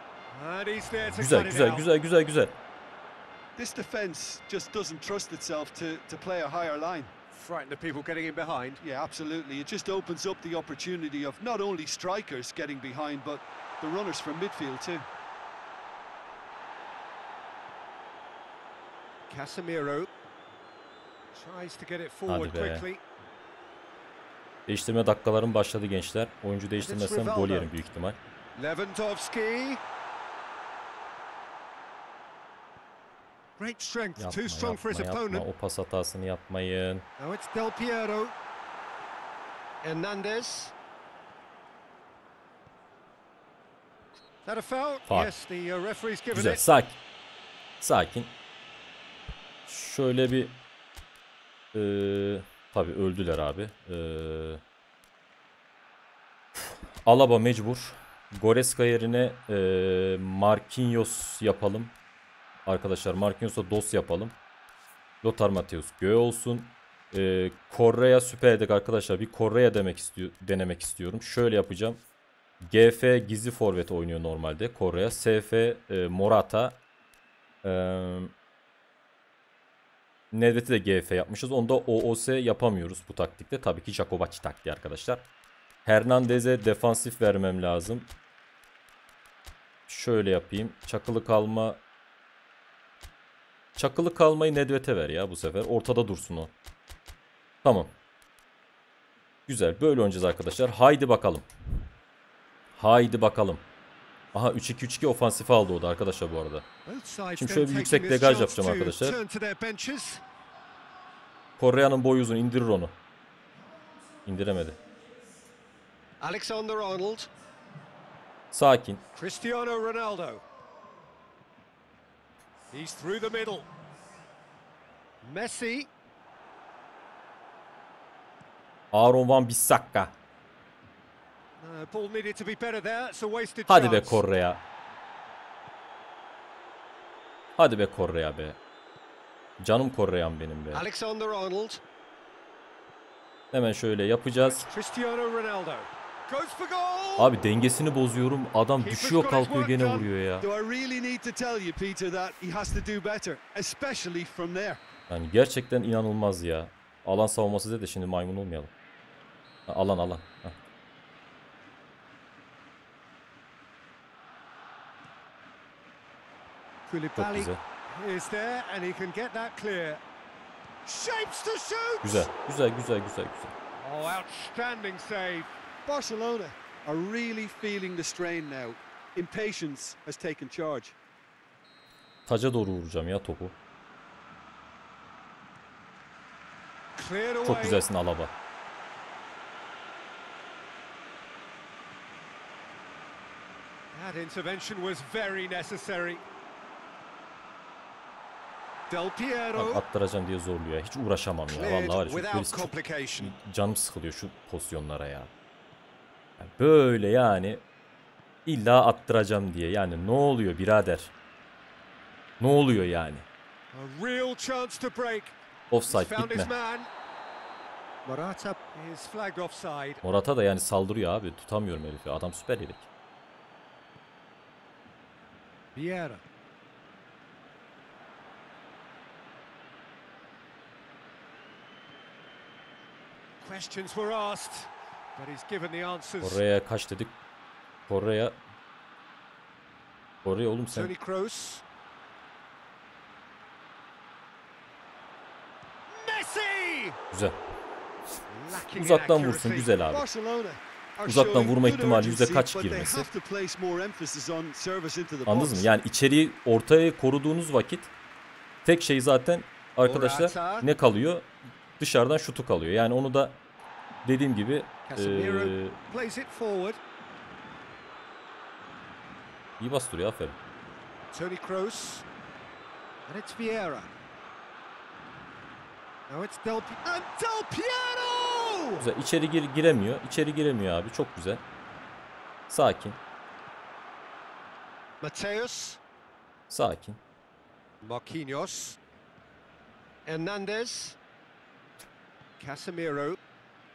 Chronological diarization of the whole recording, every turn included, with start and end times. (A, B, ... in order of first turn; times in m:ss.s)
0:00.3-0:01.9 A
0:01.1-0:02.6 B
0:03.6-0:07.1 C
0:07.3-0:08.8 A
0:08.8-0:15.0 C
0:19.3-0:20.1 A
0:21.3-0:23.0 A
0:22.3-0:22.9 B
0:24.7-0:28.2 B
0:26.8-0:27.7 A
0:28.6-0:29.8 A
0:33.6-0:35.5 A
0:34.2-0:37.0 B
0:37.2-0:38.4 A
0:39.8-0:40.8 A
0:44.4-0:46.6 A
0:46.3-0:47.0 B
0:47.8-0:48.3 B
0:49.7-0:50.6 B
0:51.7-0:54.6 B
0:56.6-1:01.9 B
1:02.7-1:04.4 B
1:05.2-1:12.0 B
1:12.6-1:16.8 B
1:17.6-1:18.3 B
1:20.3-1:25.2 B
1:25.8-1:28.1 B
1:29.9-1:31.8 B
1:33.8-1:36.5 B
1:37.6-1:37.9 B
1:39.5-1:41.5 B
1:42.8-1:43.6 B
1:44.3-1:46.7 B
1:46.9-1:50.2 A
1:47.4-1:49.2 B
1:51.6-1:53.0 B
1:54.2-1:54.8 B
1:56.2-1:57.3 A
1:58.5-1:59.0 B
1:59.2-2:00.4 A
2:02.7-2:03.7 A
2:05.2-2:05.9 A
2:08.9-2:10.1 B
2:11.6-2:14.2 A
2:13.7-2:14.6 B
2:17.6-2:18.6 B
2:19.6-2:20.8 B
2:20.7-2:21.8 A
2:23.5-2:24.7 B
2:24.4-2:27.3 A
2:27.2-2:30.5 B
2:28.8-2:30.1 A
2:30.4-2:34.8 C
2:35.1-2:38.7 B
2:39.7-2:40.6 B
2:46.9-2:50.0 A
2:47.2-2:47.6 B
2:50.8-2:52.3 A
2:52.0-2:53.5 B
2:53.8-2:55.5 A
2:55.9-3:01.0 C
3:02.3-3:03.6 B
3:07.0-3:07.8 A
3:07.4-3:08.3 B
3:13.9-3:16.2 A
3:18.9-3:19.8 A
3:19.6-3:25.3 B
3:21.5-3:23.4 A
3:26.4-3:27.6 B
3:28.5-3:31.1 B
3:32.4-3:33.3 B
3:33.7-3:35.4 A
3:35.7-3:36.5 B
3:35.9-3:36.9 A
3:38.0-3:40.0 A
3:40.0-3:42.9 B
3:45.8-3:46.2 A
3:53.4-3:56.4 A
3:56.2-3:57.2 B
3:57.9-3:58.4 B
4:00.2-4:00.9 B
4:00.7-4:01.6 A
4:05.9-4:07.0 A
4:07.1-4:07.4 B
4:08.3-4:09.7 A
4:08.7-4:10.0 B
4:09.9-4:15.7 C
4:11.0-4:13.1 B
4:15.3-4:17.9 B
4:18.6-4:23.4 B
4:19.8-4:20.7 A
4:24.0-4:25.8 B
4:24.9-4:26.8 A
4:29.6-4:30.4 B
4:31.1-4:32.0 A
4:33.1-4:33.9 A
4:36.1-4:38.8 A
4:38.8-4:41.4 B
4:42.5-4:43.0 B
4:45.0-4:45.8 A
4:46.5-4:47.0 B
4:47.8-4:48.8 A
4:50.1-4:51.0 A
4:52.4-4:53.2 A